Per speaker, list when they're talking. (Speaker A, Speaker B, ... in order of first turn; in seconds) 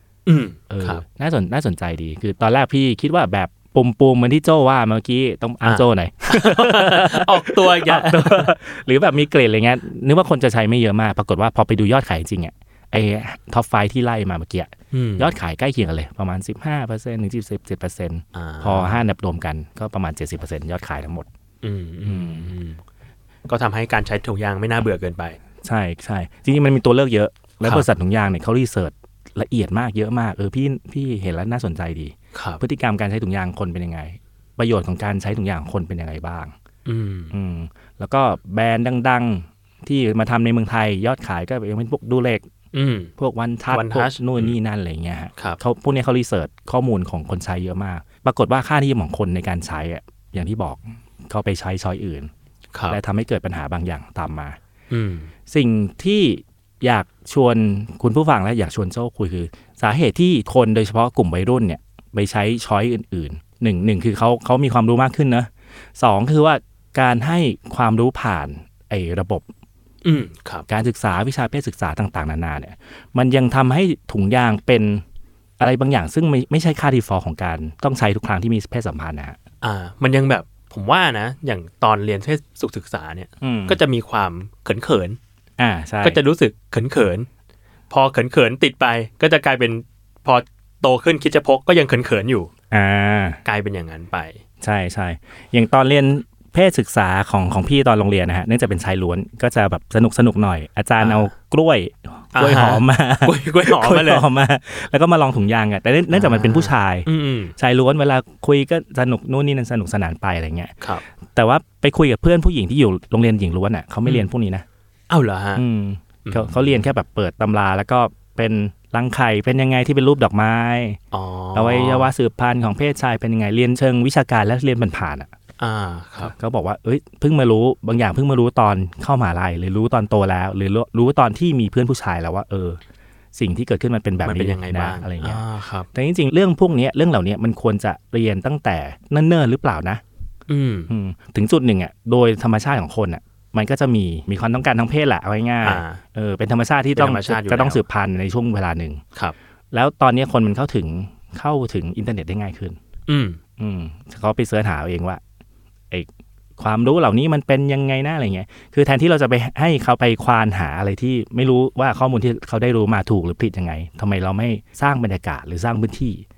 Speaker A: 0.2-1.0, 5.6-8.5, 14.9-15.3, 18.3-19.0, 21.6-22.8, 23.5-25.4, 32.3-32.6, 36.8-37.4, 42.7-43.1, 43.7-44.5, 52.7-53.0, 54.9-55.3, 70.0-70.7, 79.6-85.2, 86.0-87.3, 87.9-92.5, 93.4-94.4, 101.0-101.3, 102.3-104.2, 106.1-107.5, 115.1-115.6, 116.2-116.9, 121.1-122.1, 125.6-126.3, 134.2-135.9, 140.5-140.9, 145.6-146.0, 146.9-147.8, 153.1-153.4
Speaker B: 0.7-21.2, 22.1-22.5, 25.6-36.5, 37.3-42.5, 43.2-52.3, 52.9-54.6, 55.5-69.5, 70.7-75.0, 75.6-79.4, 83.4-83.8, 85.6-86.2, 92.7-93.4, 94.6-110.8, 111.3-114.6, 115.5-121.0, 121.5-125.3, 126.2-132.8, 133.3-140.0, 140.9-149.0, 149.7-152.8, 153.6-155.2, 155.9-166.2